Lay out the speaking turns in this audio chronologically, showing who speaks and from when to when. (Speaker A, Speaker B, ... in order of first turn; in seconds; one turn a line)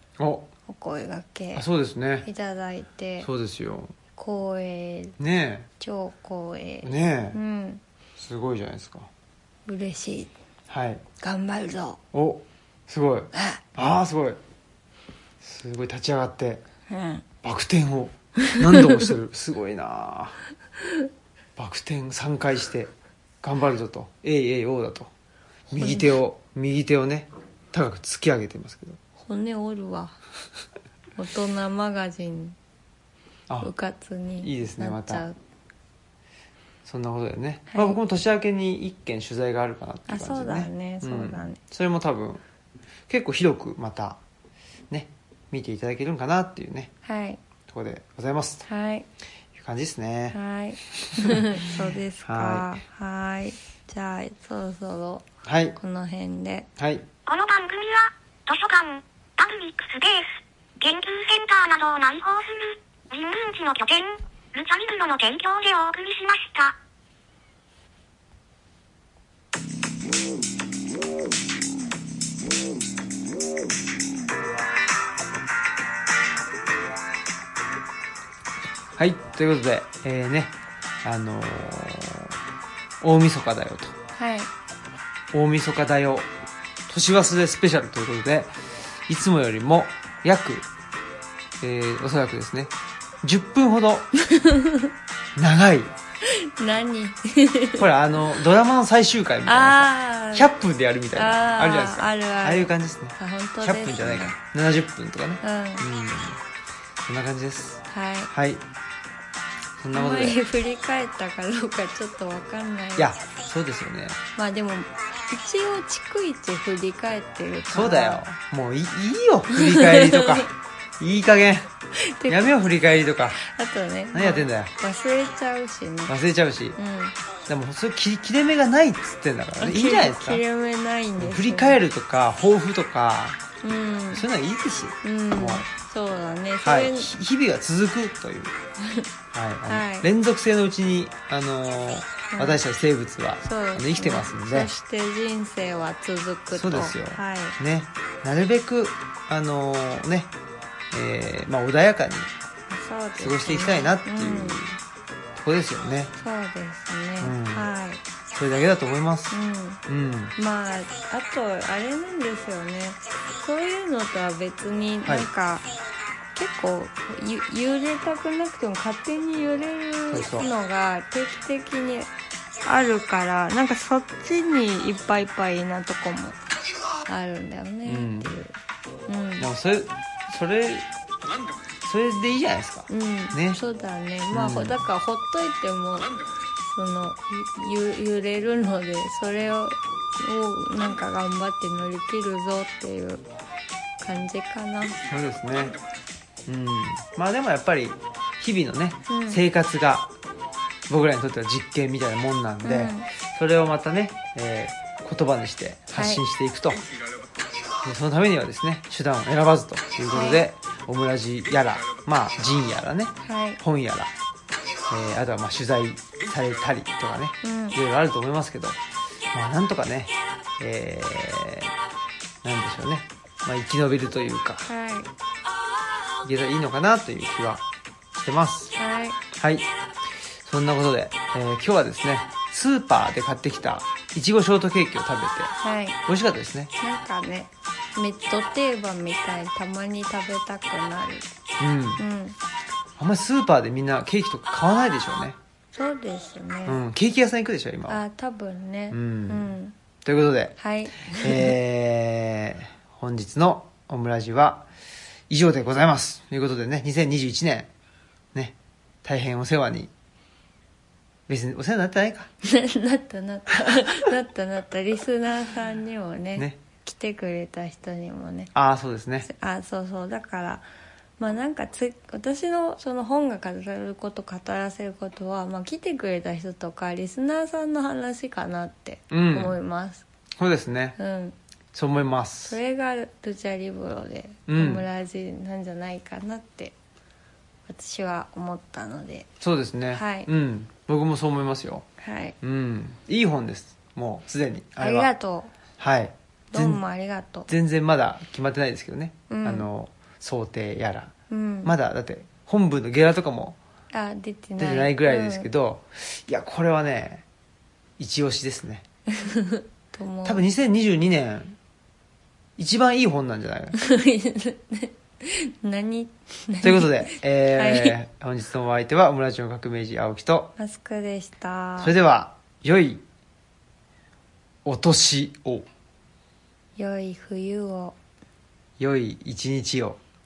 Speaker A: 0.2-0.5
Speaker B: 0.7-1.7
Speaker A: 1.5-2.3
Speaker B: 2.2-3.3
Speaker A: 3.2-3.9
Speaker B: 4.2-5.2
Speaker A: 5.2-5.7
Speaker B: 5.8-7.8
Speaker A: 6.8-7.4
Speaker A: 8.2-9.1
Speaker B: 9.7-10.3
Speaker A: 10.7-11.0
Speaker B: 11.2-12.0
Speaker A: 12.1-14.4
Speaker B: 13.3-13.6
Speaker A: 15.4-16.6
Speaker B: 16.9-17.2
Speaker A: 17.4-20.4
Speaker B: 18.4-19.0
Speaker A: 21.6-22.9
Speaker A: 23.4-25.1
Speaker A: 25.7-29.0
Speaker B: 25.8-26.1
Speaker B: 29.2-30.2
Speaker B: 31.1-32.6
Speaker B: 33.6-35.4
Speaker A: 34.4-35.2
Speaker A: 36.8-42.4
Speaker B: 37.7-38.0
Speaker B: 40.1-41.6
Speaker A: 43.1-44.2
Speaker A: 44.9-46.9
Speaker B: 47.0-47.4
Speaker A: 47.7-48.6
Speaker B: 48.7-49.1
Speaker A: 49.5-52.7
Speaker B: 50.3-56.7
Speaker A: 55.4-55.8
Speaker A: 56.8-57.1
Speaker C: 57.2-66.8
Speaker A: 79.0-82.4
Speaker A: 83.0-84.0
Speaker B: 84.2-84.5
Speaker A: 85.3-86.3
Speaker A: 86.9-88.5
Speaker A: 89.1-90.7
Speaker A: 91.6-94.1
Speaker B: 94.2-94.9
Speaker A: 95.3-95.9
Speaker B: 96.2-97.9
Speaker A: 97.8-106.4
Speaker B: 99.5-100.5
Speaker B: 101.1-104.4
Speaker B: 105.4-105.9
Speaker A: 107.0-108.6
Speaker B: 107.9-108.3
Speaker A: 109.8-110.4
Speaker B: 109.9-113.1
Speaker A: 113.0-114.2
Speaker B: 114.3-118.2
Speaker A: 117.7-121.7
Speaker B: 119.5-120.5
Speaker B: 122.0-122.5
Speaker A: 122.3-123.4
Speaker B: 123.4-126.1
Speaker A: 124.1-124.7
Speaker A: 126.1-126.8
Speaker B: 126.8-127.1
Speaker A: 127.5-130.4
Speaker B: 129.6-131.8
Speaker A: 131.2-133.4
Speaker B: 133.6-134.2
Speaker A: 134.1-135.7
Speaker B: 135.0-137.1
Speaker A: 136.6-138.6
Speaker B: 138.8-139.1
Speaker A: 139.3-144.7
Speaker B: 139.7-140.1
Speaker B: 142.3-142.6
Speaker B: 143.4-147.6
Speaker A: 146.5-150.3
Speaker A: 150.9-152.3
Speaker B: 152.7-154.6
Speaker A: 153.2-154.8
Speaker A: 155.3-156.1
Speaker B: 156.2-158.0
Speaker A: 157.2-157.7
Speaker A: 158.3-160.3
Speaker B: 159.3-159.8
Speaker B: 160.3-165.7
Speaker B: 166.3-172.1
Speaker A: 170.1-170.5
Speaker B: 172.6-176.4
Speaker B: 177.1-178.5
Speaker A: 177.8-178.4
Speaker B: 179.1-179.5
Speaker A: 179.4-180.9
Speaker A: 181.8-183.6
Speaker B: 182.9-193.2
Speaker A: 184.3-184.8
Speaker B: 194.0-195.0
Speaker A: 195.1-195.8
Speaker A: 196.4-200.1
Speaker B: 199.1-199.4
Speaker A: 200.9-206.8
Speaker B: 202.6-203.1
Speaker B: 205.9-206.2
Speaker A: 207.8-214.1
Speaker B: 210.1-210.4
Speaker B: 213.2-213.6
Speaker A: 214.9-218.8
Speaker B: 217.4-217.8
Speaker A: 219.3-221.7
Speaker A: 222.4-224.7
Speaker B: 224.7-225.1
Speaker A: 226.2-228.7
Speaker B: 228.8-229.2
Speaker A: 229.3-229.7
Speaker A: 230.3-235.5
Speaker B: 235.6-236.0
Speaker A: 236.1-236.7
Speaker B: 236.8-241.3
Speaker A: 241.6-242.0
Speaker B: 242.0-242.4
Speaker A: 243.0-245.4
Speaker B: 245.7-246.8
Speaker A: 246.7-248.0
Speaker B: 247.9-249.8
Speaker A: 248.9-250.6
Speaker B: 250.6-251.5
Speaker A: 251.1-254.7
Speaker A: 255.3-257.7
Speaker A: 258.3-259.9
Speaker A: 261.3-262.3
Speaker B: 262.4-268.5
Speaker A: 268.5-269.3
Speaker B: 269.2-270.6
Speaker B: 271.2-280.0
Speaker A: 279.1-279.6
Speaker A: 280.4-281.0
Speaker B: 281.0-281.4
Speaker A: 281.7-282.6
Speaker B: 282.5-286.7
Speaker A: 284.5-284.9
Speaker B: 287.7-289.3
Speaker A: 289.4-291.9
Speaker B: 289.9-290.3
Speaker B: 292.0-292.4
Speaker A: 292.4-295.1
Speaker B: 294.8-295.5
Speaker A: 295.8-296.8
Speaker B: 296.5-297.5
Speaker A: 297.5-303.6
Speaker B: 299.3-299.7
Speaker B: 301.3-301.7
Speaker B: 303.9-305.5
Speaker A: 304.6-307.2
Speaker A: 308.0-308.8
Speaker B: 309.1-310.5
Speaker A: 310.2-311.6
Speaker A: 312.6-313.8
Speaker B: 313.8-318.0
Speaker A: 316.6-320.5
Speaker B: 320.6-321.9
Speaker A: 321.8-323.0
Speaker A: 324.6-325.6
Speaker B: 326.8-327.9
Speaker A: 328.8-330.0